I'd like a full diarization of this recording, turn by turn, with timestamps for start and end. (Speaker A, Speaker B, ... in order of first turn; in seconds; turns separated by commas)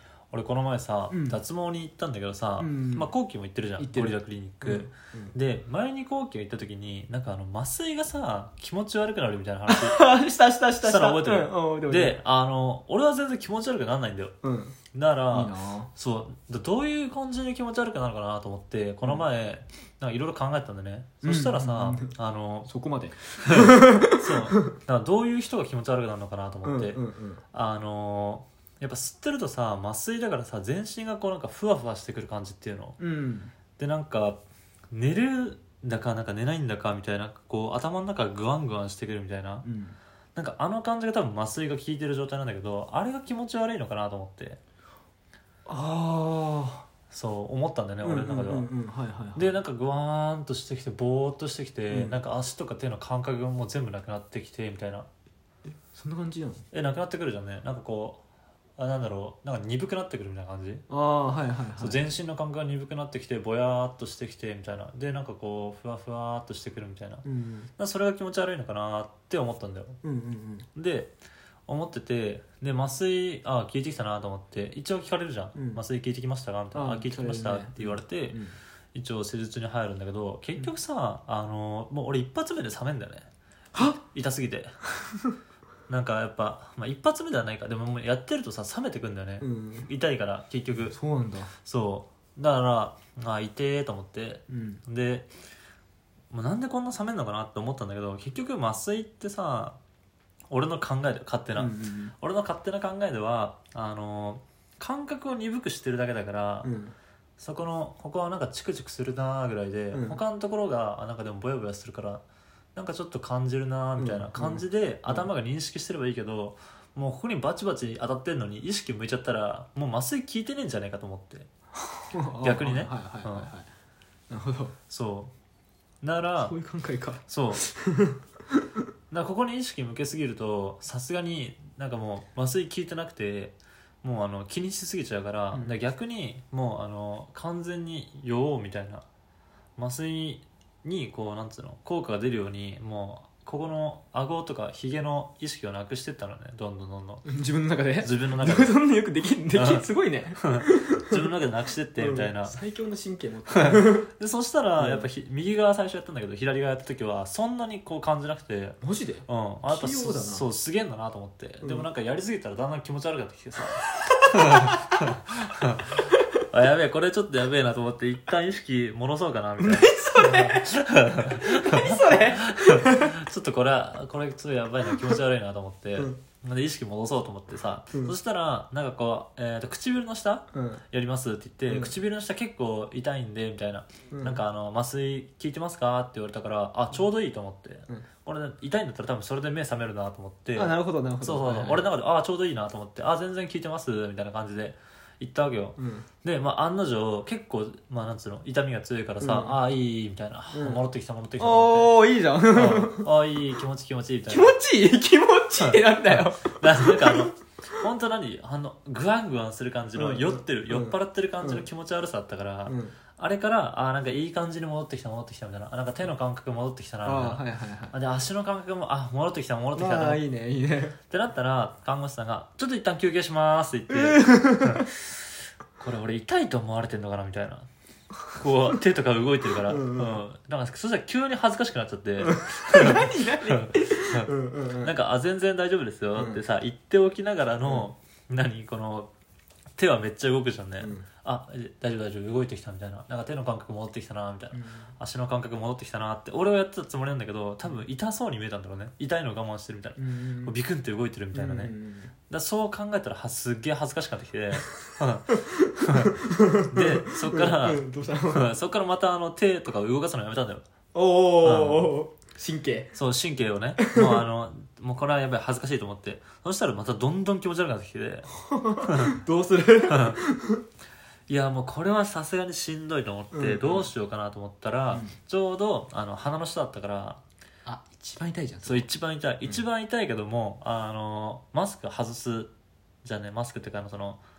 Speaker A: 0.3-10.0, Speaker B: 1.1-1.4, Speaker B: 2.6-3.1, Speaker B: 3.8-5.3, Speaker B: 9.7-12.2, Speaker A: 10.8-14.3, Speaker B: 14.4-14.8, Speaker A: 14.9-22.7, Speaker B: 15.3-15.9, Speaker B: 21.2-24.8, Speaker A: 23.4-27.0, Speaker B: 26.6-27.4, Speaker A: 27.5-33.0, Speaker B: 33.0-33.5, Speaker A: 33.8-39.6, Speaker B: 39.6-40.0, Speaker A: 40.4-44.6, Speaker B: 45.7-46.9, Speaker A: 47.1-48.7, Speaker B: 48.0-49.6, Speaker A: 49.4-55.1, Speaker B: 51.9-52.2, Speaker B: 55.7-56.6, Speaker A: 56.7-58.2, Speaker A: 58.8-60.9, Speaker B: 60.9-62.0, Speaker A: 61.8-67.2, Speaker B: 67.2-67.7, Speaker A: 67.8-70.0, Speaker B: 70.0-70.7, Speaker A: 70.8-71.1, Speaker A: 71.7-78.4, Speaker B: 75.5-75.8, Speaker B: 76.7-78.6, Speaker A: 78.9-84.7, Speaker B: 83.7-84.0, Speaker A: 85.9-91.0, Speaker B: 89.4-89.9, Speaker B: 90.7-91.5, Speaker A: 91.6-95.3, Speaker B: 94.5-94.8, Speaker A: 96.3-99.8, Speaker A: 100.5-106.7, Speaker B: 101.5-102.1, Speaker B: 106.6-107.0, Speaker A: 107.4-112.2, Speaker B: 109.9-110.2, Speaker A: 112.8-121.5, Speaker B: 114.0-115.3, Speaker B: 122.1-123.7, Speaker A: 122.4-123.5, Speaker B: 124.3-124.8, Speaker A: 124.9-125.3, Speaker A: 126.0-126.5, Speaker B: 126.4-128.7, Speaker A: 127.3-127.6, Speaker A: 129.1-139.1, Speaker A: 139.8-147.2, Speaker B: 147.2-151.2, Speaker A: 148.0-148.8, Speaker A: 149.5-149.9, Speaker A: 150.4-152.6, Speaker B: 152.0-154.1, Speaker A: 153.5-202.0, Speaker B: 154.8-155.1, Speaker B: 158.8-160.4, Speaker B: 161.6-161.9, Speaker B: 164.5-164.8, Speaker B: 169.6-173.2, Speaker B: 180.5-180.8, Speaker B: 181.7-181.9, Speaker B: 184.1-184.4, Speaker B: 190.6-191.9, Speaker B: 195.8-196.1, Speaker B: 199.2-199.6, Speaker B: 200.5-200.8, Speaker B: 201.4-203.1, Speaker A: 202.5-204.6, Speaker B: 204.3-207.3, Speaker A: 205.6-220.2, Speaker B: 209.9-211.7, Speaker B: 212.7-212.9, Speaker B: 217.0-218.0, Speaker B: 219.8-221.0, Speaker A: 221.1-225.1, Speaker B: 223.9-224.9, Speaker A: 225.8-227.7, Speaker A: 228.4-234.3, Speaker B: 229.6-230.2, Speaker B: 232.2-234.9, Speaker A: 234.8-239.1, Speaker B: 236.2-236.4, Speaker A: 239.8-251.7, Speaker B: 240.8-241.1, Speaker B: 244.5-244.9, Speaker B: 250.0-250.6, Speaker B: 251.3-252.1, Speaker A: 252.3-256.1, Speaker B: 255.3-258.5, Speaker A: 256.7-260.6, Speaker B: 260.9-262.9, Speaker A: 261.4-262.0, Speaker A: 262.9-268.3, Speaker B: 263.8-264.1, Speaker B: 268.4-270.6, Speaker A: 268.8-269.1, Speaker A: 269.9-270.2, Speaker A: 271.3-277.2, Speaker B: 273.3-273.9, Speaker B: 274.9-275.2, Speaker B: 277.6-278.9, Speaker A: 278.6-282.5, Speaker A: 283.0-284.2